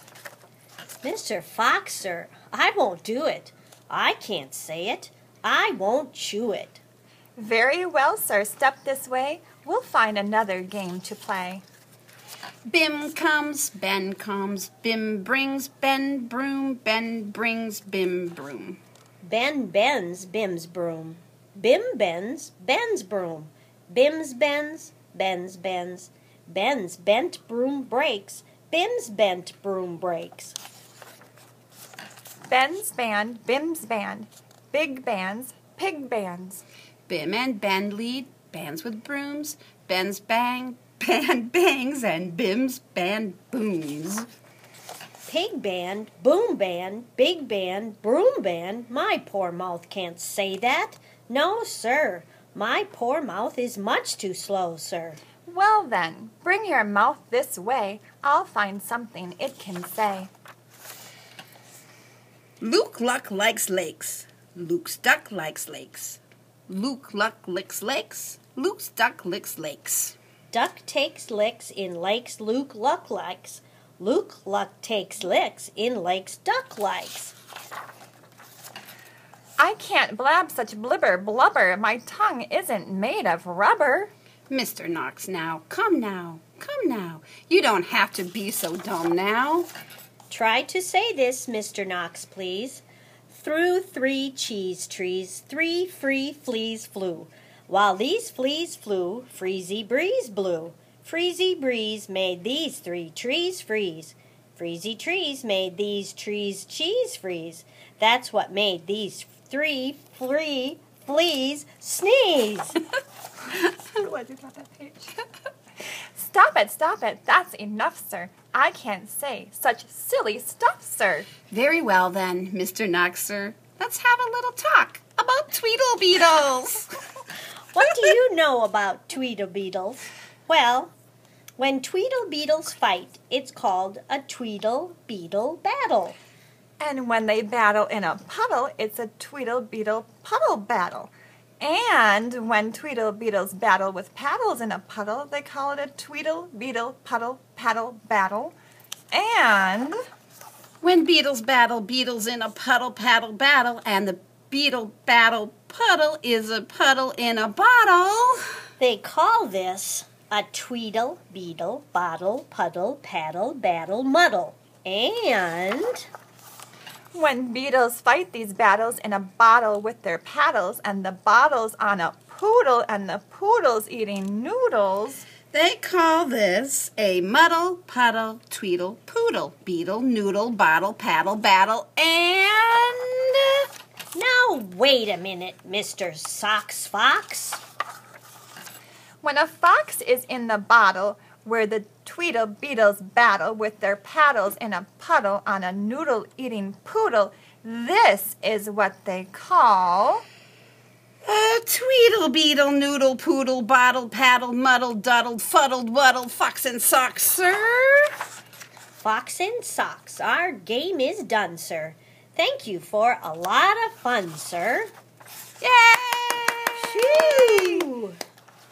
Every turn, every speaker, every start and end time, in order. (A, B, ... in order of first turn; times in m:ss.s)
0:01.0-0:06.8 A
0:07.4-0:11.6 B
0:12.7-0:18.8 C
0:19.2-0:30.6 A
0:32.5-0:36.6 B
0:37.1-0:44.3 C
0:45.2-0:55.2 A
0:55.4-1:00.3 B
1:02.6-1:10.2 C
1:10.5-1:17.3 A
1:19.6-1:24.1 B
1:24.5-1:29.7 C
1:30.3-1:52.8 A
1:53.5-1:55.2 B
1:56.1-2:01.3 B
2:01.5-2:06.9 C
2:07.7-2:10.9 A
2:11.6-2:16.2 A
2:16.8-2:28.5 B
2:29.1-2:30.0 B
2:30.8-2:38.4 C
2:38.8-2:46.1 A
2:47.1-2:55.3 B
2:55.5-3:03.6 C
3:04.1-3:07.6 A
3:09.2-3:20.2 B
3:21.2-3:28.1 C
3:29.0-3:34.9 A
3:35.6-3:37.9 C
3:36.8-3:38.1 A